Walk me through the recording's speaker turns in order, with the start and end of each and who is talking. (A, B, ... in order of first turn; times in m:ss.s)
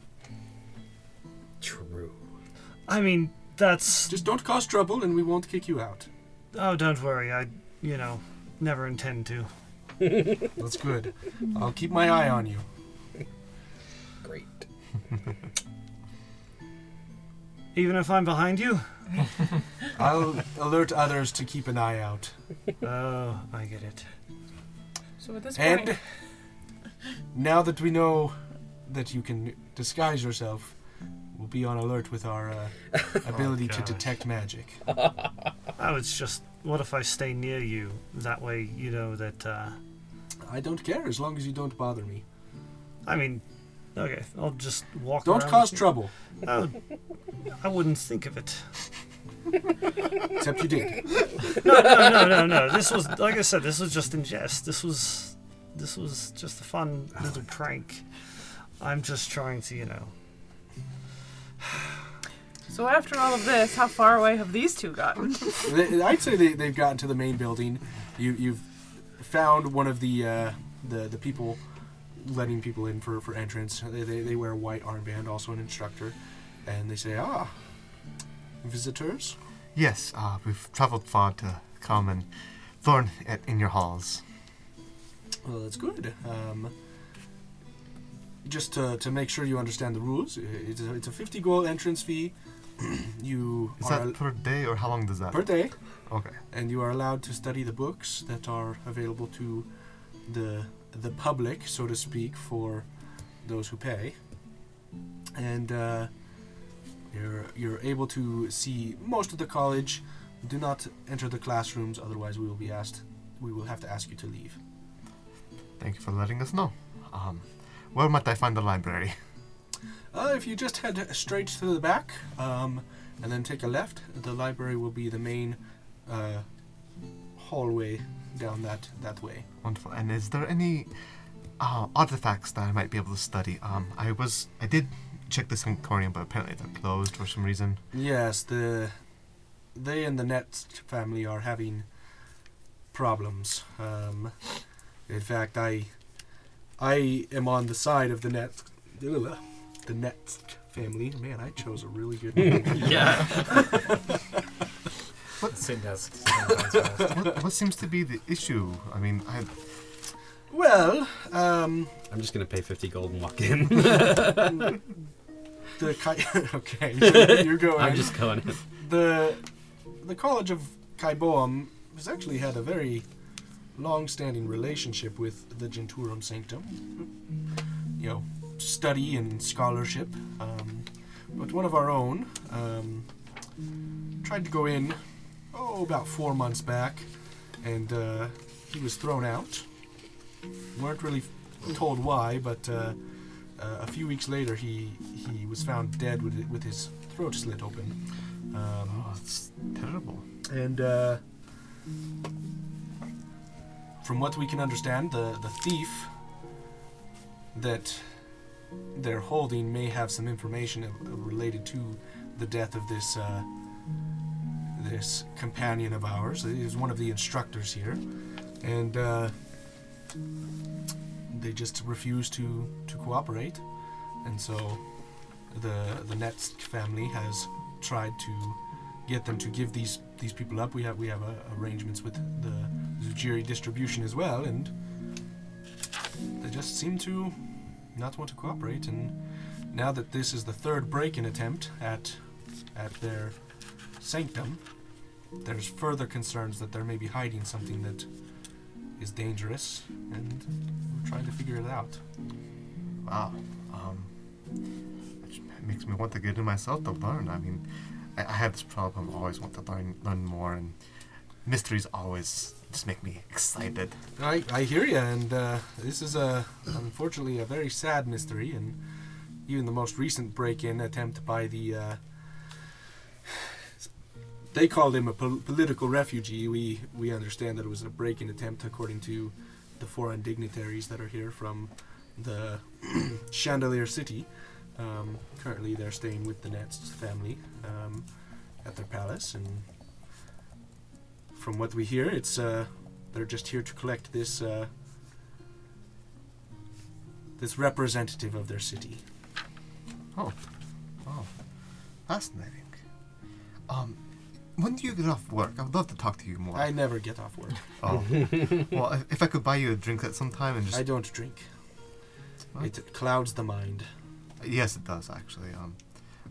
0:01.6-0:02.2 A
0:02.9-0:04.2 B
0:04.1-0:06.1 C
0:06.5-0:09.5 B
0:10.6-0:12.6 C
0:14.2-0:14.6 A
0:17.7-0:18.9 B
0:19.9-0:22.3 C
0:22.8-0:24.0 B
0:25.2-0:26.0 D
0:25.5-0:26.0 C
0:27.3-0:30.7 C
0:31.3-0:34.8 C
0:33.3-0:33.6 E
0:35.8-0:39.8 B
0:40.4-0:42.2 C
0:43.0-0:43.4 B
0:43.9-0:46.8 B
0:45.2-0:46.1 C
0:47.6-0:48.8 B
0:50.4-0:51.0 C
0:51.5-0:58.0 B
0:58.8-1:00.1 B
1:02.7-1:05.7 D
1:05.6-1:11.6 C
1:12.2-1:17.5 C
1:18.6-1:19.4 C
1:19.7-1:22.3 F
1:22.8-1:24.2 F
1:25.4-1:26.7 C
1:28.4-1:34.2 C
1:33.8-1:36.4 F
1:35.3-1:35.8 C
1:36.5-1:39.7 C
1:40.2-1:42.9 C
1:43.4-1:44.2 C
1:45.3-1:46.1 C
1:47.1-1:54.6 C
1:55.8-1:59.2 F
2:00.1-2:06.4 C
2:07.4-2:09.4 C
2:09.6-2:10.9 F
2:11.6-2:17.8 F
2:17.9-2:19.0 C
2:19.7-2:21.8 C
2:22.9-2:24.4 C
2:25.1-2:25.9 C
2:26.8-2:34.1 C
2:32.8-2:33.2 A
2:32.8-2:33.7 E
2:35.4-2:37.2 E
2:37.0-2:37.3 C
2:37.0-2:39.6 F
2:40.5-2:41.9 C
2:42.1-2:44.7 A
2:45.8-2:49.4 C
2:47.1-2:48.6 A
2:50.0-2:53.0 C
2:53.7-2:57.1 C
2:58.0-3:03.1 C
3:04.2-3:05.0 C
3:05.5-3:07.1 C
3:07.6-3:09.6 C
3:10.7-3:13.0 C
3:13.6-3:19.0 C
3:18.9-3:20.2 F
3:20.5-3:21.2 C
3:24.0-3:26.1 C
3:27.5-3:28.2 C
3:28.9-3:33.5 C
3:34.8-3:38.0 C
3:38.6-3:39.3 C
3:41.3-3:43.6 C
3:44.2-3:44.8 C
3:45.5-3:54.7 C
3:56.4-3:57.4 C
3:57.9-3:59.2 C
3:59.7-4:02.2 C
4:02.7-4:03.4 C
4:04.0-4:04.6 C
4:05.4-4:08.1 C
4:09.0-4:12.0 C
4:13.0-4:14.1 F
4:15.2-4:20.8 F
4:21.4-4:24.0 F
4:24.2-4:28.8 C
4:29.4-4:32.0 C
4:34.5-4:48.1 C
4:48.6-4:49.6 C
4:51.3-4:54.7 C
4:57.4-4:59.0 C
5:01.0-5:01.3 F
5:02.1-5:02.8 F
5:03.7-5:04.0 F
5:04.5-5:06.8 F
5:06.5-5:07.6 C
5:07.8-5:10.9 F
5:10.7-5:11.5 C
5:12.6-5:13.9 C
5:14.4-5:15.8 F